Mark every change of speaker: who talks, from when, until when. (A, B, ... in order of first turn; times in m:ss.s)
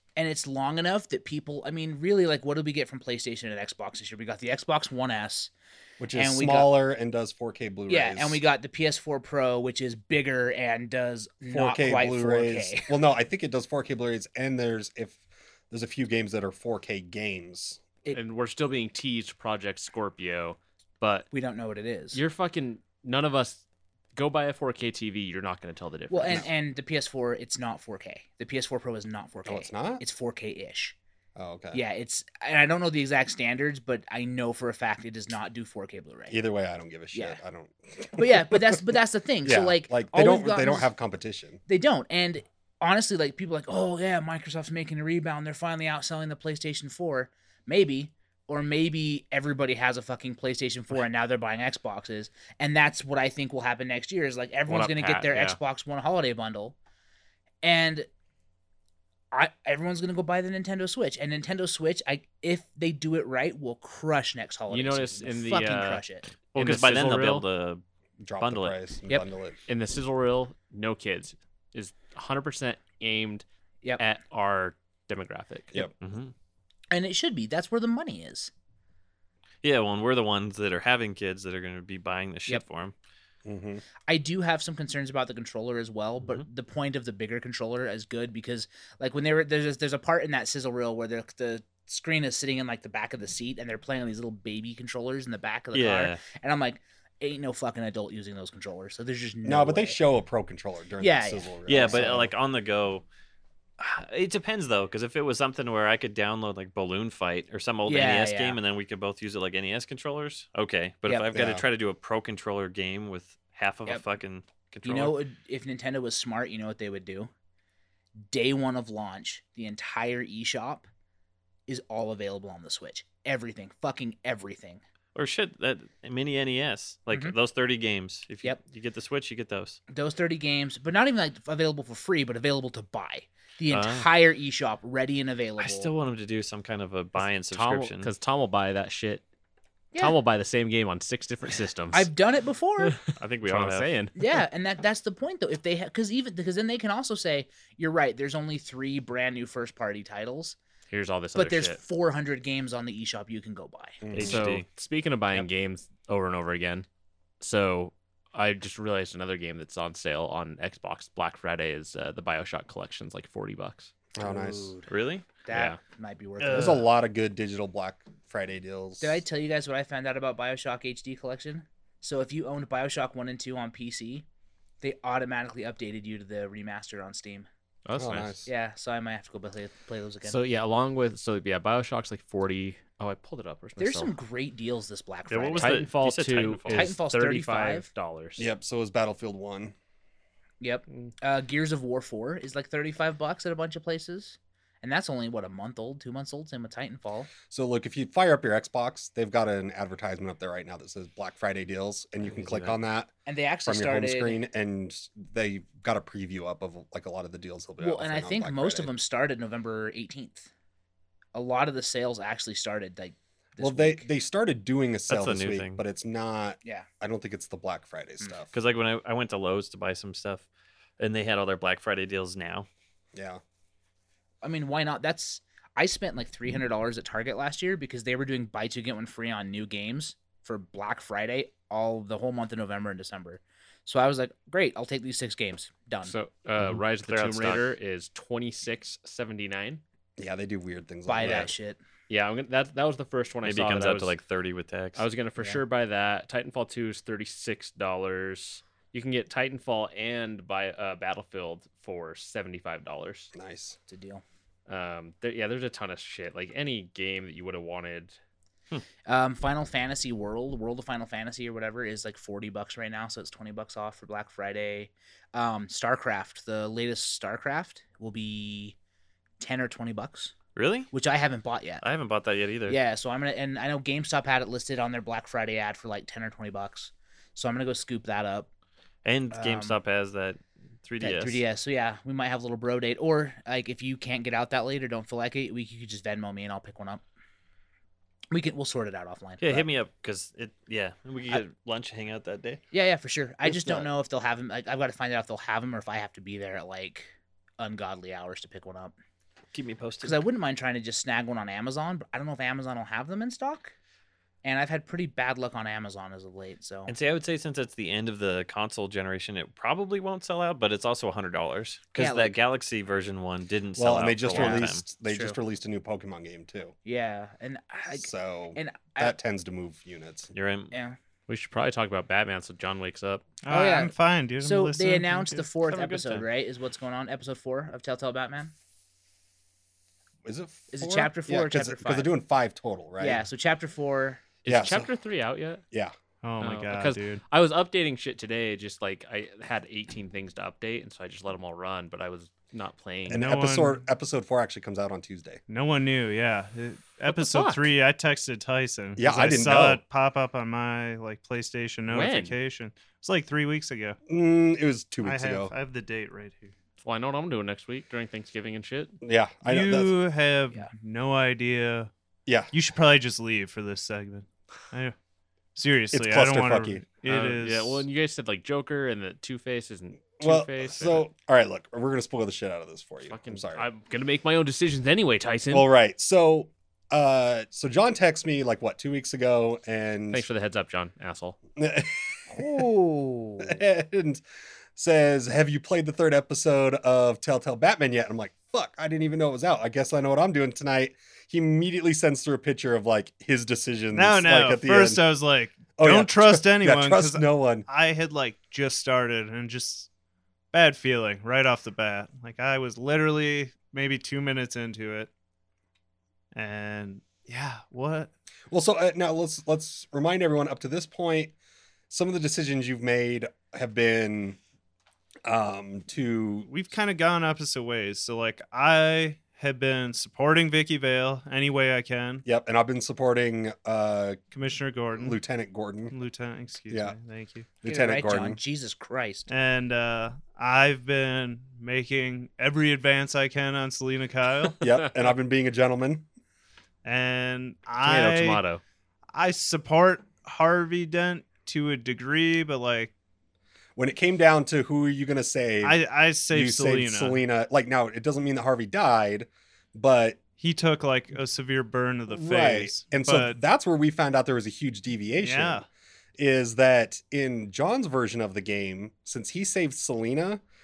0:00.2-0:05.5 A
0:06.0-0:08.4 B
0:06.1-0:06.7 A
0:07.9-0:12.9 A
0:11.5-0:17.8 B
0:18.1-0:21.3 C
0:21.3-0:22.2 A
0:22.1-0:23.6 C
0:24.1-0:26.5 C
0:26.1-0:31.0 A
0:29.4-0:30.0 B
0:31.4-0:31.8 B
0:31.7-0:36.4 A
0:36.3-0:38.8 B
0:37.1-0:37.4 A
0:38.2-0:40.9 A
0:39.4-0:41.6 B
0:41.7-0:56.7 A
0:54.7-0:55.6 C
0:57.6-0:58.1 A
0:59.3-1:06.3 A
1:04.7-1:07.4 C
1:06.5-1:07.8 D
1:08.2-1:09.6 B
1:08.4-1:08.8 D
1:09.7-1:13.4 C
1:14.0-1:15.9 C
1:16.0-1:16.3 D
1:16.9-1:18.5 A
1:19.6-1:22.9 D
1:23.4-1:23.8 B
1:24.1-1:40.0 A
1:35.7-1:36.2 D
1:39.4-1:42.3 B
1:41.0-1:42.3 A
1:41.7-1:43.0 D
1:43.8-1:55.2 D
1:47.8-1:48.6 A
1:51.3-1:51.6 B
1:54.8-1:57.3 A
1:58.3-2:00.9 A
2:01.7-2:04.8 A
2:05.1-2:09.8 D
2:09.9-2:15.9 A
2:13.7-2:14.1 D
2:15.6-2:18.1 D
2:17.2-2:19.2 C
2:20.0-2:22.1 C
2:21.9-2:23.0 A
2:22.8-2:24.1 C
2:23.2-2:23.9 D
2:24.2-2:30.6 A
2:30.9-2:31.8 C
2:31.3-2:34.0 A
2:34.0-2:34.4 B
2:34.1-2:34.6 D
2:34.2-2:36.8 C
2:37.4-2:43.9 C
2:44.2-2:44.7 B
2:44.2-2:44.9 A
2:44.9-2:45.2 D
2:45.4-2:46.8 A
2:45.5-2:45.8 C
2:46.4-2:46.8 E
2:46.5-2:49.2 B
2:49.0-2:54.2 A
2:54.8-2:57.5 A
2:57.8-2:58.3 C
2:57.9-2:58.5 B
2:58.4-3:00.4 A
3:00.2-3:04.1 C
3:03.8-3:05.8 A
3:05.3-3:06.9 D
3:05.6-3:08.5 C
3:06.7-3:07.9 A
3:08.4-3:09.7 B
3:10.6-3:17.3 A
3:17.5-3:23.1 B
3:22.3-3:22.7 D
3:23.2-3:24.4 A
3:23.6-3:28.9 B
3:27.8-3:30.5 A
3:31.3-3:34.1 A
3:33.6-3:38.5 B
3:35.1-3:35.8 D
3:38.5-3:40.4 D
3:41.0-3:42.7 D
3:43.1-3:43.4 B
3:44.4-3:56.1 A
3:56.0-3:59.8 C
3:56.6-3:57.7 D
4:00.2-4:01.5 B
4:01.0-4:01.8 A
4:02.1-4:04.1 C
4:03.4-4:05.0 D
4:05.0-4:13.3 C
4:13.3-4:13.8 B
4:13.9-4:14.2 A
4:14.7-4:18.2 C
4:19.0-4:28.8 A
4:29.4-4:30.3 A
4:30.6-4:30.9 D
4:30.9-4:31.8 A
4:31.8-4:32.8 D
4:32.7-4:38.5 A
4:39.0-4:41.4 D
4:39.3-4:39.8 A
4:41.0-4:47.0 A
4:48.3-4:49.7 A
4:49.4-4:52.6 D
4:52.7-4:58.9 A
4:59.5-5:00.2 D
5:00.0-5:03.7 A
5:04.4-5:06.9 A
5:06.9-5:14.8 D
5:12.0-5:12.4 A
5:13.8-5:16.7 B
5:14.3-5:15.4 A
5:16.8-5:19.2 A
5:17.9-5:20.3 B
5:20.3-5:20.7 D
5:20.7-5:21.0 A
5:21.3-5:23.3 C
5:23.4-5:25.5 E
5:23.5-5:28.5 A
5:25.7-5:26.2 D
5:30.2-5:33.2 B
5:30.7-5:32.1 A
5:33.0-5:34.2 A
5:34.4-5:35.6 C
5:34.5-5:34.9 B
5:36.2-5:37.2 E
5:36.4-5:43.2 C
5:43.1-5:45.4 B
5:43.2-5:43.8 E
5:45.5-5:54.0 E
5:47.1-5:47.7 C
5:49.0-5:49.8 B
5:51.9-5:52.4 C
5:54.1-5:55.5 B
5:55.0-5:56.5 E
5:56.8-5:59.0 C
5:59.0-5:59.9 B
5:59.4-6:01.9 E
6:02.5-6:04.9 E
6:05.5-6:07.8 E
6:05.9-6:06.8 B
6:07.0-6:11.0 C
6:10.2-6:13.6 B
6:13.1-6:15.7 C
6:15.5-6:20.3 B
6:20.1-6:21.4 C
6:21.6-6:22.7 B
6:22.3-6:23.6 A
6:23.4-6:24.2 B
6:24.8-6:35.0 B
6:33.9-6:39.9 E
6:35.8-6:37.6 B
6:40.5-6:45.1 E
6:46.3-6:48.1 E
6:48.5-6:51.3 B
6:51.9-6:54.4 B
6:55.2-6:56.5 B
6:56.5-7:02.2 E
7:02.2-7:04.2 B
7:04.3-7:05.2 E
7:04.9-7:05.9 B
7:05.9-7:07.5 E
7:06.7-7:07.0 B
7:07.6-7:08.4 B
7:07.6-7:09.3 A
7:09.3-7:14.6 E
7:14.6-7:16.0 B
7:16.8-7:18.4 E
7:17.8-7:18.6 C
7:19.1-7:22.9 E
7:23.8-7:25.8 B
7:25.6-7:27.2 E
7:26.3-7:30.2 B
7:30.4-7:33.4 E
7:32.1-7:35.6 B
7:35.2-7:35.6 E
7:36.2-7:40.4 B